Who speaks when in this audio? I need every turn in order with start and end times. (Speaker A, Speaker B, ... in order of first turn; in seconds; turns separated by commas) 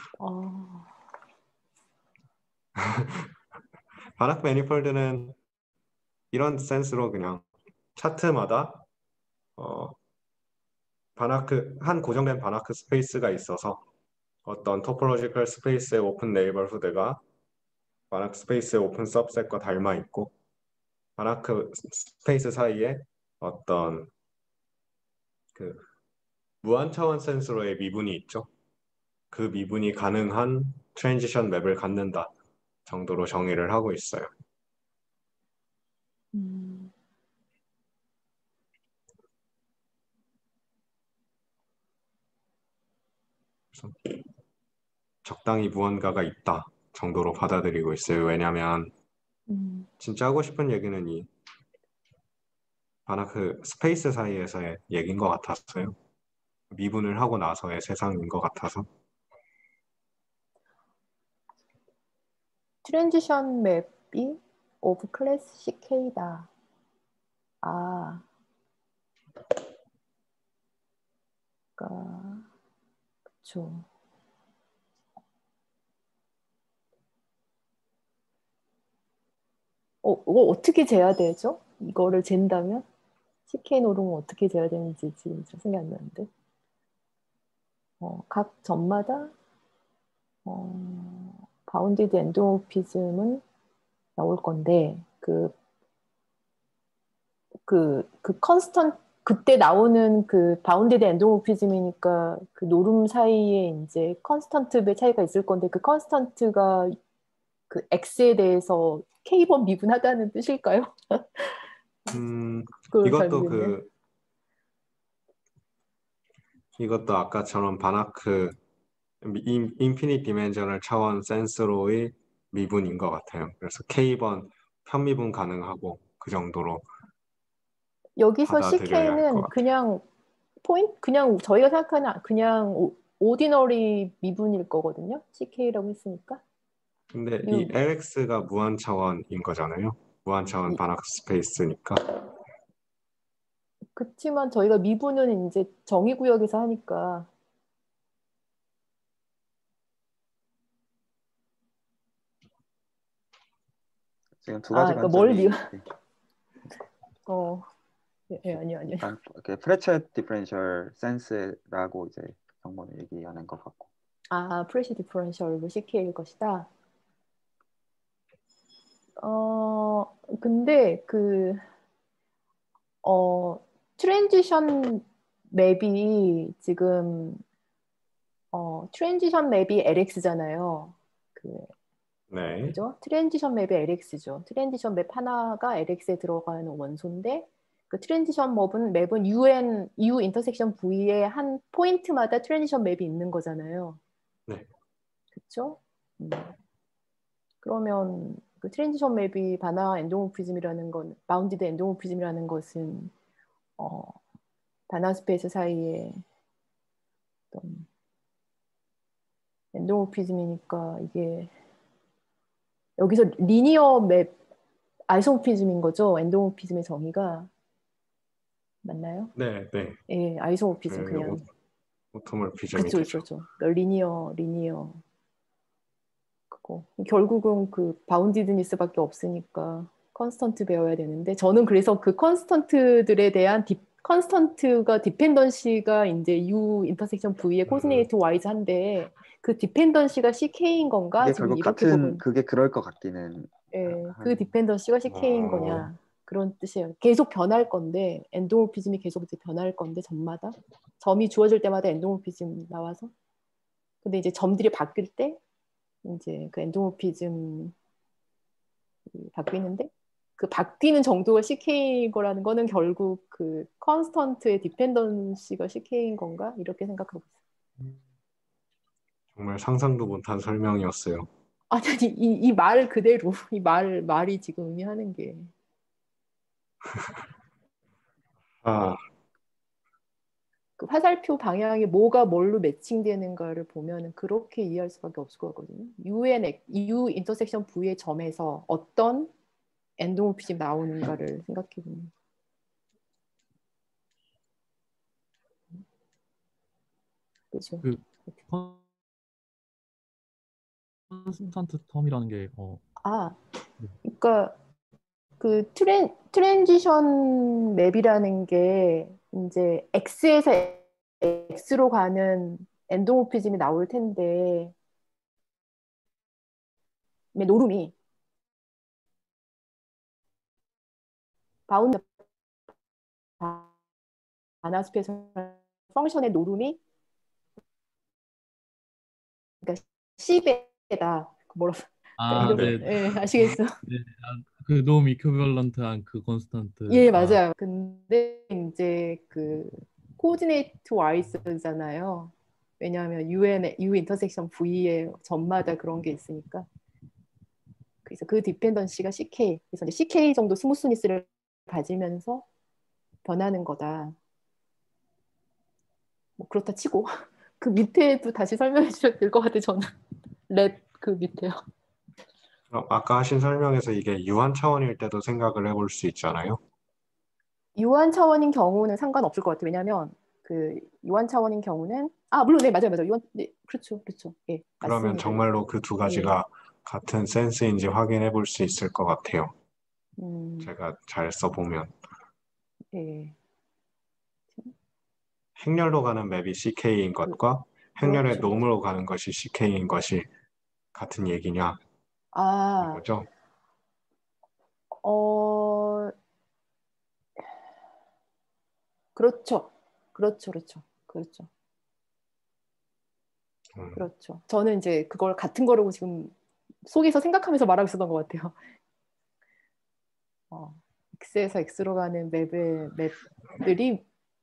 Speaker A: 0.2-0.9, Speaker B: 2.8-3.3, Speaker B: 4.2-5.4, Speaker B: 6.3-7.4, Speaker B: 8.0-8.8, Speaker B: 9.6-10.0, Speaker B: 11.2-13.8, Speaker B: 14.4-17.2, Speaker B: 18.1-20.3, Speaker B: 21.2-24.1, Speaker B: 25.6-25.9, Speaker B: 26.6-28.5, Speaker B: 29.3-32.3, Speaker B: 32.9-34.3, Speaker A: 36.3-36.9, Speaker B: 43.7-44.2, Speaker B: 45.2-48.9, Speaker A: 49.5-49.9, Speaker B: 50.0-51.3, Speaker B: 53.1-56.0, Speaker B: 56.7-58.9, Speaker A: 62.8-66.5, Speaker A: 67.6-68.2, Speaker A: 71.8-72.5, Speaker A: 73.4-73.9, Speaker A: 80.0-82.8, Speaker A: 83.5-86.3, Speaker A: 88.0-89.3, Speaker A: 90.5-93.4, Speaker A: 94.2-95.5, Speaker A: 97.7-107.0, Speaker A: 107.7-111.7, Speaker B: 112.1-113.9, Speaker A: 112.9-113.8, Speaker B: 116.8-118.6, Speaker B: 119.2-126.9, Speaker A: 128.2-130.0, Speaker B: 128.4-129.6, Speaker A: 130.6-136.4, Speaker B: 137.1-142.1, Speaker A: 137.4-137.7, Speaker A: 144.0-147.3, Speaker C: 154.4-155.8, Speaker A: 154.7-155.8, Speaker A: 157.3-157.7, Speaker A: 158.3-159.1, Speaker C: 159.0-163.9, Speaker A: 164.3-166.7, Speaker A: 169.2-171.6, Speaker A: 173.0-177.4, Speaker A: 178.5-181.7, Speaker B: 182.3-182.8, Speaker A: 182.7-194.0, Speaker A: 195.4-196.5, Speaker A: 197.6-203.1, Speaker A: 203.8-204.2, Speaker A: 204.9-206.2, Speaker A: 207.5-207.9, Speaker A: 209.7-211.5, Speaker A: 213.0-214.3, Speaker A: 215.1-217.5, Speaker A: 218.8-219.3, Speaker B: 219.4-220.0, Speaker A: 220.1-221.4, Speaker B: 220.9-221.4, Speaker B: 222.1-223.2, Speaker A: 222.7-225.0, Speaker A: 226.5-242.2, Speaker B: 237.7-238.1, Speaker C: 241.2-244.5, Speaker A: 243.7-253.1, Speaker B: 245.1-245.9, Speaker A: 254.0-255.4, Speaker A: 256.0-257.7, Speaker A: 259.1-267.3, Speaker B: 269.3-271.3, Speaker A: 271.7-275.5, Speaker B: 278.6-279.0, Speaker A: 280.8-289.3, Speaker A: 290.0-292.1, Speaker A: 297.5-297.8, Speaker D: 297.8-298.8, Speaker D: 301.1-302.8, Speaker A: 303.0-303.4, Speaker A: 304.0-304.6, Speaker A: 305.4-314.7, Speaker A: 317.3-317.9, Speaker A: 321.7-322.1, Speaker A: 323.4-323.7, Speaker A: 324.6-326.8, Speaker A: 329.6-333.7, Speaker D: 332.2-337.4, Speaker B: 332.3-332.9, Speaker A: 336.9-346.7, Speaker A: 348.1-352.4, Speaker A: 353.2-354.2, Speaker A: 356.4-359.9, Speaker A: 360.5-361.6, Speaker B: 362.7-366.6, Speaker A: 367.8-375.4, Speaker B: 374.8-379.5, Speaker A: 376.0-376.4, Speaker A: 380.2-380.7, Speaker B: 380.6-381.9, Speaker A: 382.9-383.4, Speaker B: 385.6-390.3, Speaker A: 388.0-388.7, Speaker B: 390.9-391.8, Speaker A: 392.3-393.0, Speaker B: 392.8-393.3, Speaker A: 395.0-396.1, Speaker A: 399.1-401.5, Speaker B: 403.8-404.0, Speaker A: 404.0-406.3, Speaker A: 406.9-408.6, Speaker A: 410.5-414.0